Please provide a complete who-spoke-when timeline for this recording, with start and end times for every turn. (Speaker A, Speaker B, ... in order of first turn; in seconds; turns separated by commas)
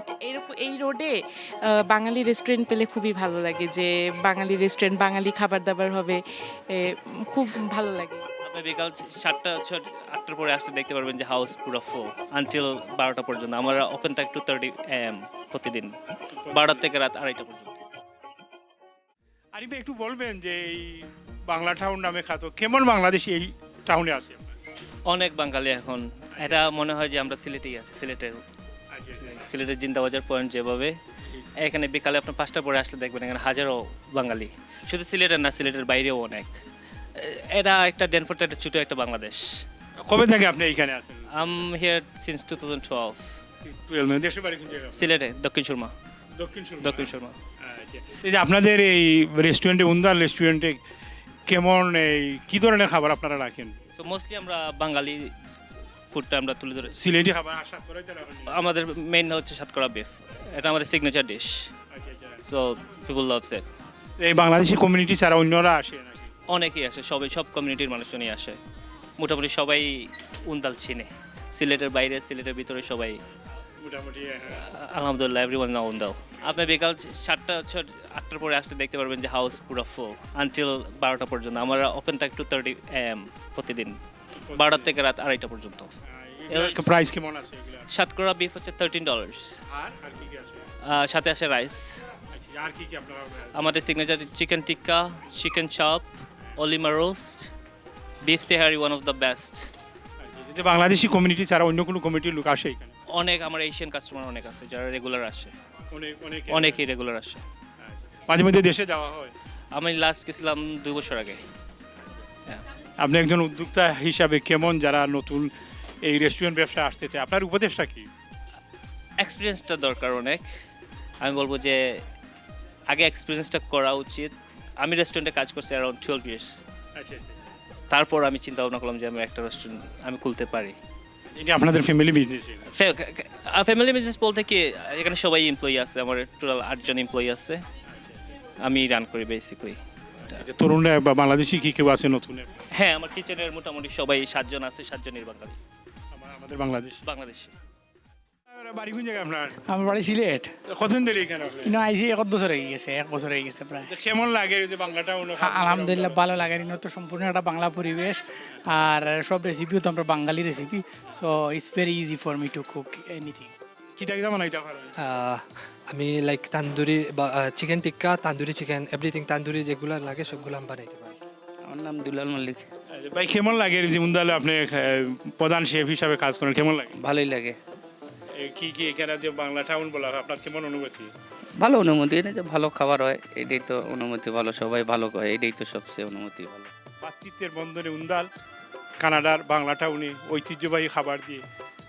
Speaker A: 0.2-8.2, Speaker B: 8.4-15.9, Speaker C: 16.3-16.8, Speaker B: 16.5-17.8, Speaker C: 19.5-24.5, Speaker B: 25.0-28.4, Speaker C: 26.4-26.7, Speaker C: 28.9-29.3, Speaker B: 29.2-30.9, Speaker B: 31.6-36.6, Speaker B: 37.1-39.6, Speaker C: 40.0-41.6, Speaker B: 41.3-43.2, Speaker C: 43.6-45.1, Speaker B: 44.9-45.9, Speaker C: 46.4-47.1, Speaker B: 46.8-47.4, Speaker C: 47.6-50.8, Speaker C: 51.5-53.8, Speaker B: 54.0-55.3, Speaker B: 56.1-57.0, Speaker C: 56.9-58.6, Speaker B: 58.5-61.7, Speaker C: 61.9-62.4, Speaker B: 62.4-63.7, Speaker C: 64.2-66.3, Speaker B: 66.5-68.6, Speaker B: 69.2-73.2, Speaker C: 73.8-74.6, Speaker B: 74.6-84.0, Speaker C: 84.4-84.9, Speaker B: 84.5-85.9, Speaker C: 86.0-87.8, Speaker B: 86.5-86.8, Speaker B: 87.9-89.6, Speaker C: 89.7-90.7, Speaker B: 90.8-92.0, Speaker C: 92.3-93.5, Speaker B: 93.5-97.5, Speaker B: 98.2-99.7, Speaker C: 100.2-102.9, Speaker B: 103.1-105.5, Speaker C: 105.9-106.8, Speaker B: 106.5-107.4, Speaker C: 107.8-109.3, Speaker B: 109.7-111.4, Speaker C: 113.0-115.5, Speaker C: 116.0-118.1, Speaker B: 119.2-120.5, Speaker B: 121.2-122.0, Speaker B: 122.9-126.6, Speaker C: 127.0-127.3, Speaker B: 127.9-130.8, Speaker C: 131.3-132.7, Speaker B: 132.7-137.6, Speaker B: 138.6-139.8, Speaker C: 140.3-142.5, Speaker B: 142.7-145.6, Speaker C: 146.1-147.0, Speaker B: 147.0-147.5, Speaker C: 148.5-149.7, Speaker D: 149.7-150.5, Speaker C: 150.7-151.8, Speaker D: 151.6-153.9, Speaker C: 153.8-156.2, Speaker D: 155.4-163.5, Speaker C: 164.0-164.9, Speaker E: 165.0-171.2, Speaker F: 171.7-172.7, Speaker C: 172.9-176.9, Speaker F: 177.0-177.6, Speaker C: 178.3-181.1, Speaker F: 181.6-186.7, Speaker C: 187.0-188.3, Speaker C: 189.0-191.4